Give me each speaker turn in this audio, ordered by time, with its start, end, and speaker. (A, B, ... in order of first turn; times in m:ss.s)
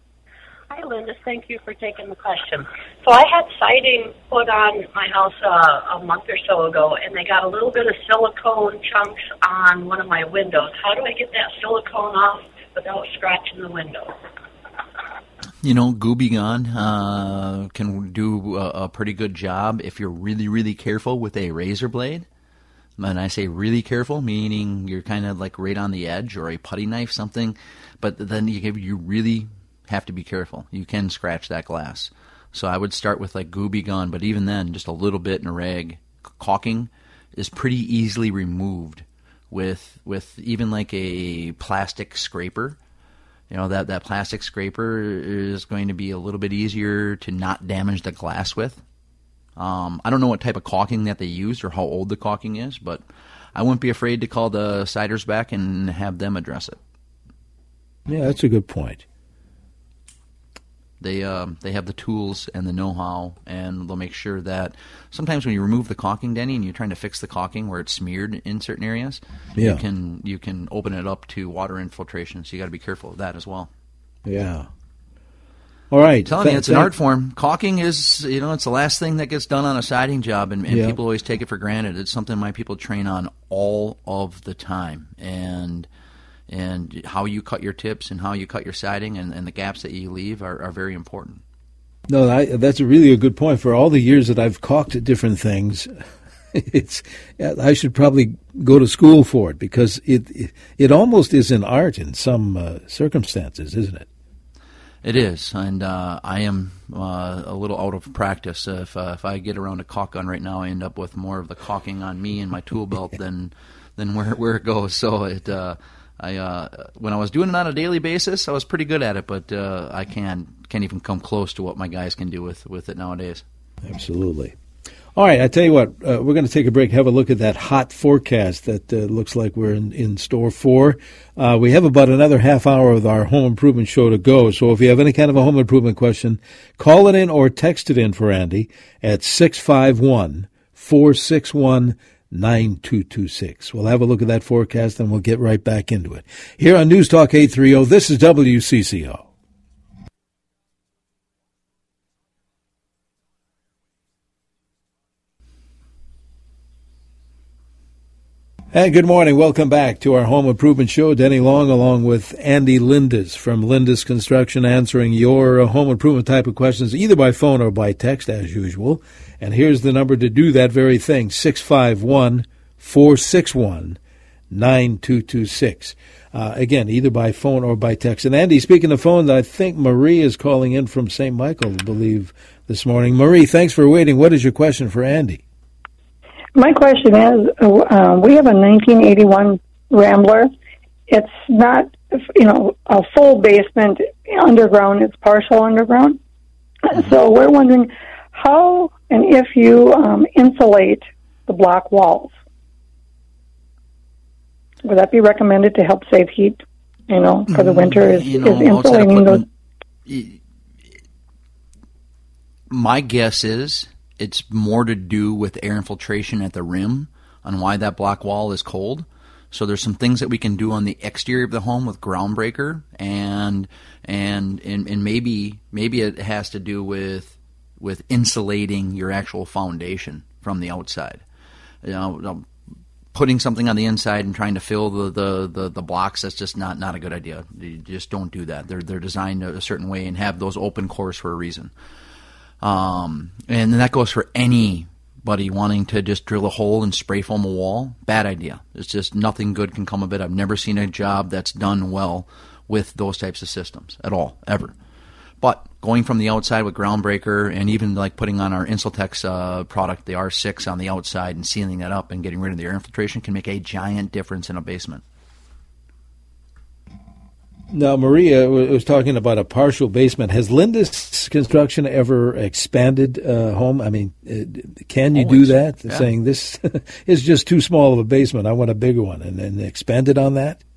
0:00.7-0:14.1 A
0:15.6-0:22.2 B
0:23.0-0:42.8 B
0:43.5-0:48.8 B
0:49.6-0:53.0 B
0:53.5-0:56.8 B
0:58.1-0:59.0 C
1:01.0-1:13.7 B
1:09.6-1:09.8 C
1:14.2-1:14.7 C
1:15.9-1:16.9 C
1:16.2-1:25.9 B
1:20.7-1:21.0 C
1:26.5-1:31.4 B
1:32.1-1:35.9 C
1:36.5-1:44.1 C
1:45.0-2:03.4 B
2:03.8-2:04.5 C
2:05.1-2:29.3 C
2:38.7-2:54.0 C
2:54.5-3:05.4 C
3:06.6-3:10.5 D
3:11.1-3:16.2 D
3:16.8-3:22.3 D
3:24.8-3:29.4 D
3:27.5-3:29.5 B
3:30.0-3:30.4 B
3:32.7-3:51.2 B
3:51.8-3:52.4 B
3:53.1-4:01.7 B
4:02.6-4:14.7 B
4:15.4-4:25.0 B
4:27.7-4:40.6 C
4:35.1-4:36.1 B